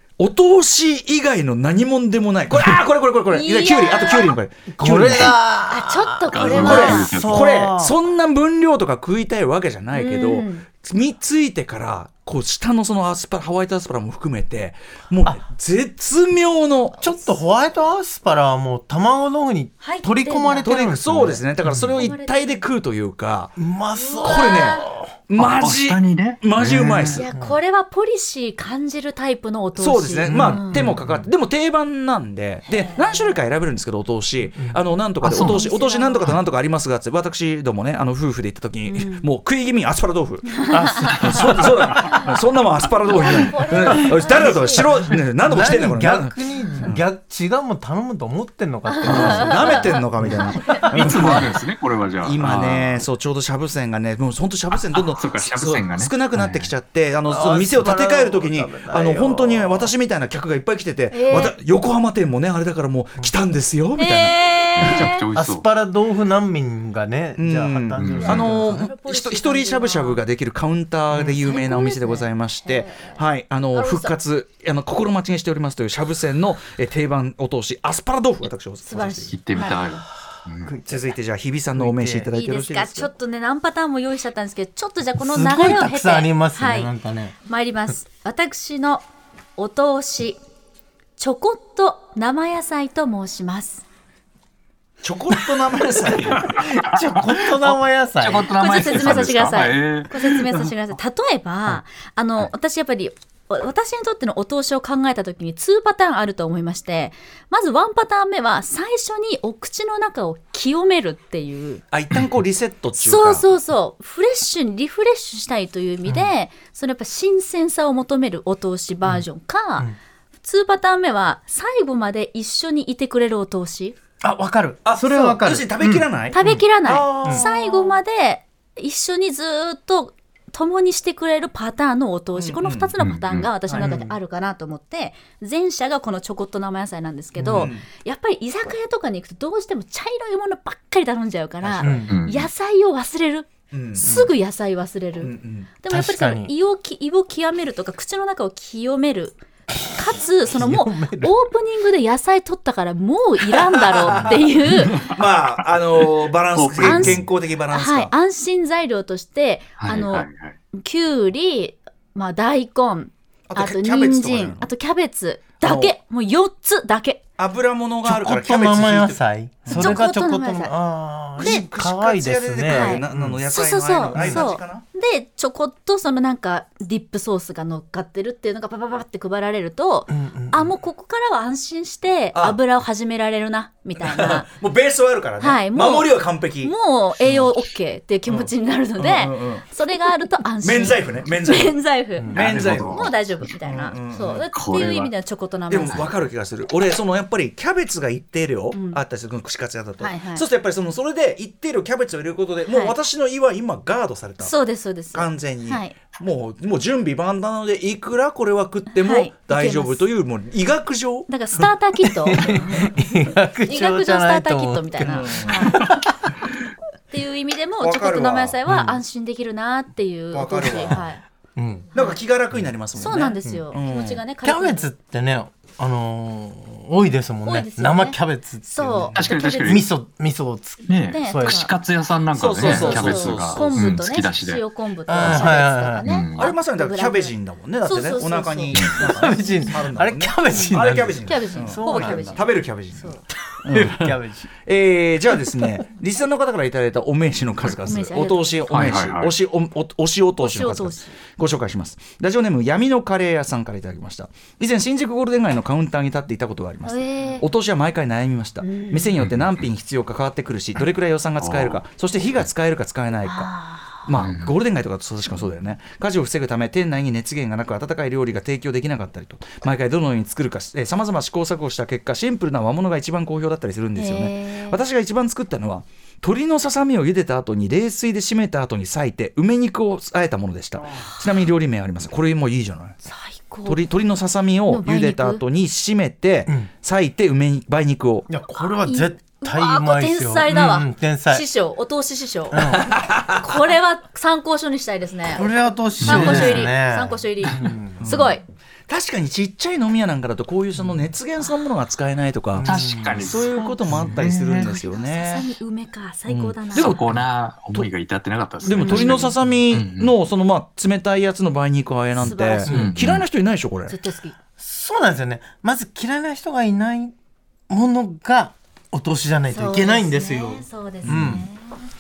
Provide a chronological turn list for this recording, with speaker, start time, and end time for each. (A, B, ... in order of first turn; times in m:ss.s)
0:00.2-0:05.4 A
0:03.3-0:04.3 B
0:04.7-0:08.0 C
0:05.7-0:07.1 B
0:06.3-0:07.5 D
0:06.5-0:17.0 A
0:09.9-0:10.7 B
0:17.0-0:21.9 C
0:19.8-0:20.7 B
0:20.6-0:23.6 A
0:22.0-0:22.7 B
0:23.6-0:25.0 C
0:23.9-0:24.9 B
0:24.2-0:27.3 A
0:25.4-0:27.2 D
0:27.2-0:30.8 B
0:27.3-0:27.6 C
0:29.8-0:47.0 A
0:30.3-0:31.3 C
0:32.8-0:33.3 B
0:35.2-0:35.7 D
0:35.4-0:36.4 B
0:38.9-0:39.3 B
0:40.6-0:41.2 B
0:40.7-0:41.9 C
0:41.2-0:41.7 D
0:42.0-0:42.3 B
0:43.1-0:44.9 B
0:44.0-0:44.8 C
0:45.4-0:51.1 C
0:48.9-0:51.4 B
0:49.0-0:51.6 A
0:50.9-0:53.0 D
0:52.2-1:05.1 A
0:54.9-0:56.7 D
0:57.3-0:59.9 C
1:01.1-1:01.6 B
1:04.0-1:05.3 B
1:04.8-1:05.7 D
1:05.4-1:08.9 C
1:07.4-1:19.4 A
1:08.0-1:08.5 D
1:08.2-1:10.2 B
1:11.1-1:11.4 C
1:11.4-1:13.2 B
1:13.7-1:14.2 B
1:18.8-1:19.9 B
1:19.3-1:20.7 D
1:20.6-1:21.1 C
1:20.9-1:23.1 A
1:21.8-1:22.3 C
1:22.3-1:26.9 B
1:25.2-1:27.4 C
1:27.4-1:29.0 B
1:29.6-1:30.4 B
1:31.2-1:33.8 B
1:35.0-1:36.8 A
1:36.0-1:38.5 C
1:36.4-1:40.7 D
1:38.5-1:51.8 B
1:51.9-1:53.5 A
1:53.0-1:59.9 B
1:56.1-1:56.3 C
2:00.4-2:04.0 B
2:04.2-2:05.9 C
2:04.8-2:07.9 A
2:06.3-2:35.0 B
2:12.4-2:12.9 A
2:13.0-2:13.5 D
2:13.8-2:14.1 C
2:17.4-2:17.7 C
2:17.5-2:17.8 A
2:21.6-2:22.0 A
2:21.8-2:22.2 C
2:22.1-2:22.5 D
2:23.7-2:24.1 A
2:24.0-2:24.3 C
2:25.2-2:25.7 A
2:25.9-2:26.5 C
2:30.5-2:31.4 C
2:33.8-2:38.1 A
2:34.8-2:35.2 D
2:36.0-2:37.2 D
2:36.8-2:47.2 B
2:39.8-2:40.6 D
2:43.5-2:44.7 A
2:45.6-2:45.9 A
2:47.4-2:50.0 A
2:48.0-2:53.4 C
2:49.7-2:50.7 B
2:51.4-2:54.8 A
2:51.4-2:51.7 B
2:52.7-3:04.5 B
2:54.2-2:54.4 C
3:00.1-3:00.7 C
3:02.3-3:02.6 A
3:04.0-3:06.8 A
3:05.4-3:16.0 B
3:08.3-3:09.6 A
3:10.6-3:11.8 A
3:12.2-3:12.4 C
3:12.3-3:13.1 D
3:12.3-3:14.5 A
3:14.5-3:15.1 D
3:15.7-3:24.5 A
3:18.7-3:19.0 B
3:20.0-3:20.4 B
3:22.7-3:23.0 B
3:24.4-3:26.0 B
3:25.1-3:31.3 A
3:28.9-3:30.0 B
3:31.3-3:33.0 B
3:32.0-3:36.5 C
3:32.4-3:32.9 A
3:33.7-3:35.8 B
3:35.0-3:35.8 A
3:37.1-3:41.2 B
3:37.8-3:38.6 A
3:38.7-3:39.0 C
3:40.3-3:41.0 A
3:40.9-3:41.9 C
3:41.9-3:44.2 A
3:43.0-3:44.9 B
3:44.4-3:51.6 C
3:47.4-3:49.9 B
3:49.2-3:49.9 D
3:50.9-3:54.6 D
3:51.1-3:51.7 B
3:52.3-3:54.0 A
3:52.6-3:57.3 B
3:55.1-3:56.1 C
3:55.2-3:55.5 D
3:56.0-3:56.5 D
3:56.4-4:23.5 A
3:57.8-3:59.6 B
3:58.8-3:59.0 D
3:59.0-4:02.4 C
4:01.2-4:03.2 B
4:03.5-4:04.5 C
4:07.8-4:08.7 B
4:08.7-4:09.3 D
4:10.4-4:11.2 B
4:16.8-4:17.5 B
4:18.6-4:19.2 B
4:21.4-4:21.8 D
4:23.2-4:24.1 B
4:24.0-4:43.0 A
4:24.2-4:24.5 D
4:34.0-4:34.8 B
4:43.0-4:43.8 B
4:43.6-4:48.3 A
4:44.7-4:45.4 B
4:48.3-4:51.5 C
4:48.8-4:55.5 B
4:52.5-4:53.0 C
4:52.8-4:53.4 A
4:55.2-4:58.0 C
4:56.0-4:56.6 D
4:56.0-4:58.4 B
4:56.1-4:56.6 A
4:58.0-4:58.3 A
4:58.9-5:05.5 A
5:02.5-5:04.6 C
5:02.6-5:04.6 D
5:04.5-5:07.0 B
5:06.3-5:10.1 D
5:06.7-5:07.2 A
5:08.6-5:09.4 B
5:08.6-5:14.0 A
5:12.2-5:12.7 B
5:12.7-5:13.0 C
5:12.7-5:13.2 D
5:13.9-5:14.4 B
5:14.6-5:17.1 C
5:17.7-5:21.4 C
5:19.5-5:21.9 B
5:21.0-5:21.4 A